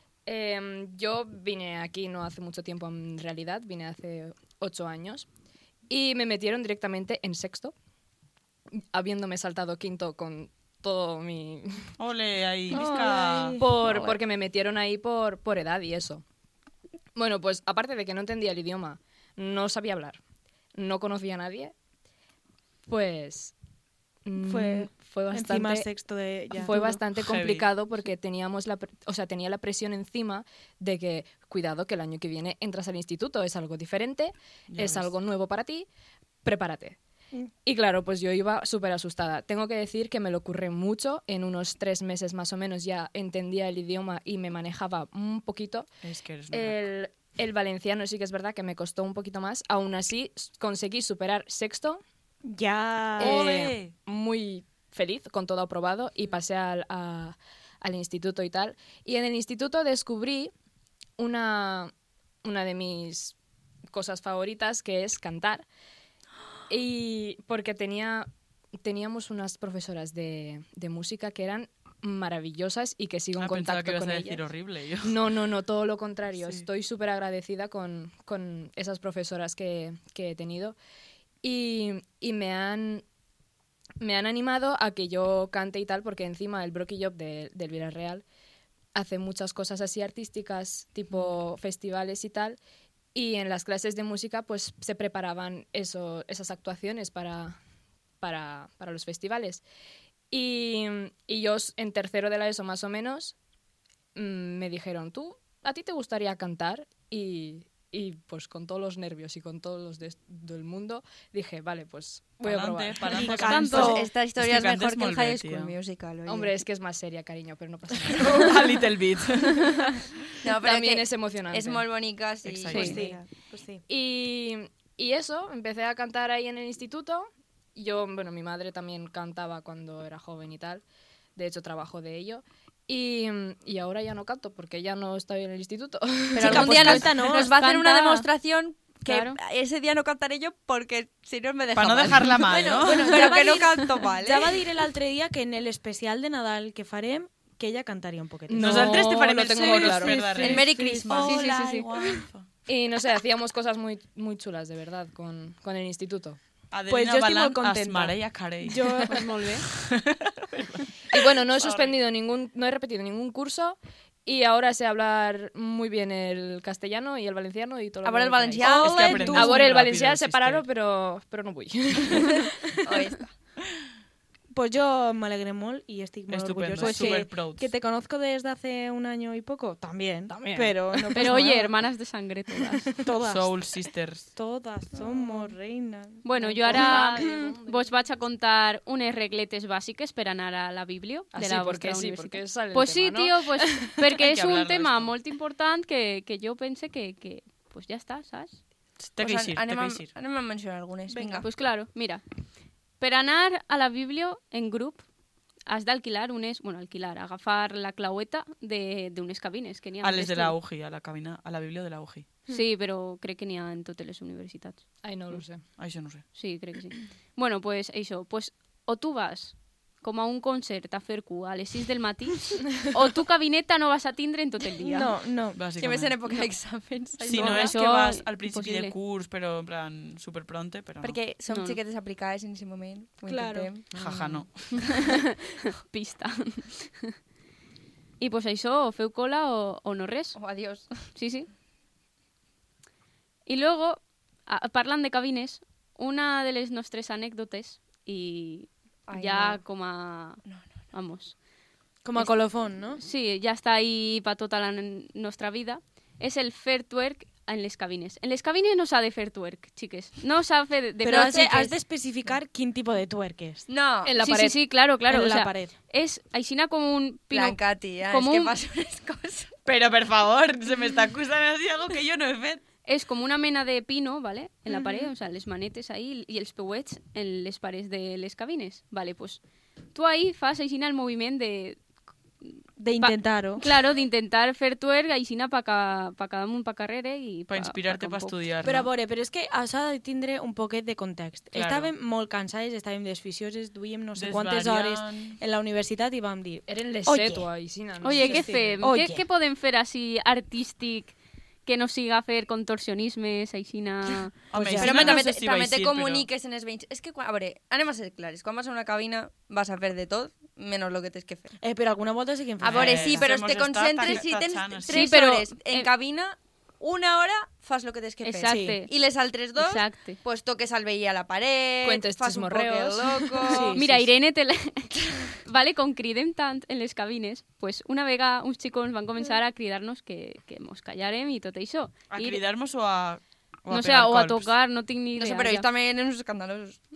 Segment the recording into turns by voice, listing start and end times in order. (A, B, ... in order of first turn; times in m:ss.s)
0:00.2-0:05.2 A
0:05.9-0:07.7 A
0:08.9-0:11.9 A
0:12.0-0:13.6 B
0:12.7-0:13.6 C
0:13.6-0:16.2 A
0:13.6-0:14.2 D
0:17.1-0:20.2 A
0:20.8-0:21.7 A
0:22.9-0:23.5 A
0:24.2-0:35.9 A
0:24.4-0:26.7 C
0:26.6-0:27.0 E
0:27.1-0:27.7 B
0:34.7-0:35.1 B
0:36.4-0:37.0 A
0:37.6-0:45.9 A
0:46.0-0:46.8 B
0:46.5-0:52.0 A
0:52.4-0:53.4 C
0:53.2-0:53.9 B
0:53.2-1:00.5 A
1:01.2-1:01.9 A
1:02.4-1:03.4 A
1:03.9-1:05.6 A
1:06.7-1:08.3 A
1:08.8-1:14.4 A
1:13.4-1:15.2 B
1:15.0-1:20.8 A
1:21.4-1:23.0 A
1:24.0-1:28.2 A
1:28.9-1:32.6 A
1:33.1-1:37.6 A
1:38.2-1:39.6 A
1:40.3-1:43.4 A
1:44.1-1:53.7 A
1:52.4-1:55.7 B
1:53.1-1:54.0 C
1:53.2-1:54.0 E
1:53.7-1:56.5 D
1:56.3-1:58.6 A
1:58.2-1:59.9 B
2:00.4-2:03.2 D
2:00.6-2:01.9 A
2:02.4-2:03.0 B
2:02.7-2:03.8 C
2:03.9-2:10.8 A
2:11.4-2:17.0 A
2:16.4-2:24.6 D
2:16.4-2:17.5 C
2:17.3-2:18.3 E
2:19.0-2:19.4 E
2:21.7-2:23.4 B
2:22.9-2:31.3 C
2:28.5-2:30.2 A
2:28.6-2:32.5 B
2:30.3-2:31.7 D
2:31.1-2:31.9 E
2:32.7-2:36.4 A
2:36.7-2:42.0 B
2:36.9-2:39.3 C
2:39.1-2:39.6 E
2:41.1-2:48.7 A
2:48.0-2:49.5 D
2:48.6-2:50.6 B
2:48.6-2:49.6 C
2:49.3-2:52.8 A
2:52.8-2:53.3 D
2:54.5-3:01.9 C
2:56.3-2:57.7 B
2:56.8-2:57.2 E
3:00.3-3:01.4 A
3:01.1-3:03.0 E
3:03.0-3:03.6 C
3:03.2-3:04.3 B
3:04.4-3:07.5 C
3:06.2-3:18.6 E
3:06.4-3:08.0 A
3:11.3-3:14.0 A
3:14.1-3:15.1 B
3:19.0-3:20.1 B
3:19.2-3:21.5 D
3:21.1-3:21.4 C
3:21.4-3:22.2 E
3:23.0-3:25.0 E
3:25.6-3:30.6 E
3:30.0-3:32.4 B
3:32.5-3:34.9 E
3:35.0-3:35.6 A
3:35.8-3:36.3 B
3:36.3-3:45.1 E
3:44.8-3:45.6 C
3:45.5-3:46.2 B
3:45.8-3:47.9 D
3:47.2-3:51.2 B
3:47.3-3:48.9 E
3:51.0-3:53.9 D
3:51.4-3:51.8 E
3:53.3-3:54.5 C
3:54.0-3:54.8 B
3:54.8-3:57.1 E
3:58.2-4:00.4 E
4:00.4-4:01.1 D
4:01.1-4:01.5 E
4:03.4-4:11.4 E
4:09.1-4:09.6 D
4:10.4-4:10.7 D
4:12.0-4:13.0 C
4:12.1-4:21.8 E
4:21.0-4:23.6 C
4:23.7-4:24.2 D
4:24.0-4:24.6 A
4:24.2-4:28.5 E
4:25.1-4:25.7 C
4:27.3-4:29.5 D
4:29.6-4:32.6 B
4:32.8-4:41.8 E
4:34.7-4:35.1 C
4:42.4-4:48.4 E
4:42.8-4:43.6 C
4:47.5-4:48.9 B
4:48.6-4:57.5 C
4:51.5-4:51.9 B
4:54.1-4:55.4 B
4:56.7-4:58.8 A
4:58.0-5:04.4 E
4:58.0-4:59.2 C
5:04.5-5:06.2 B
5:04.5-5:05.2 C
5:04.8-5:11.5 D
5:11.6-5:13.3 C
5:12.6-5:23.8 D
5:12.6-5:15.1 B
5:14.9-5:15.9 E
5:18.2-5:18.9 E
5:18.4-5:18.8 C
5:19.5-5:20.2 E
5:21.8-5:23.3 A
5:23.5-5:24.0 C
5:23.6-5:32.4 E
5:32.1-5:34.5 B
5:33.7-5:35.7 E
5:35.2-5:36.8 D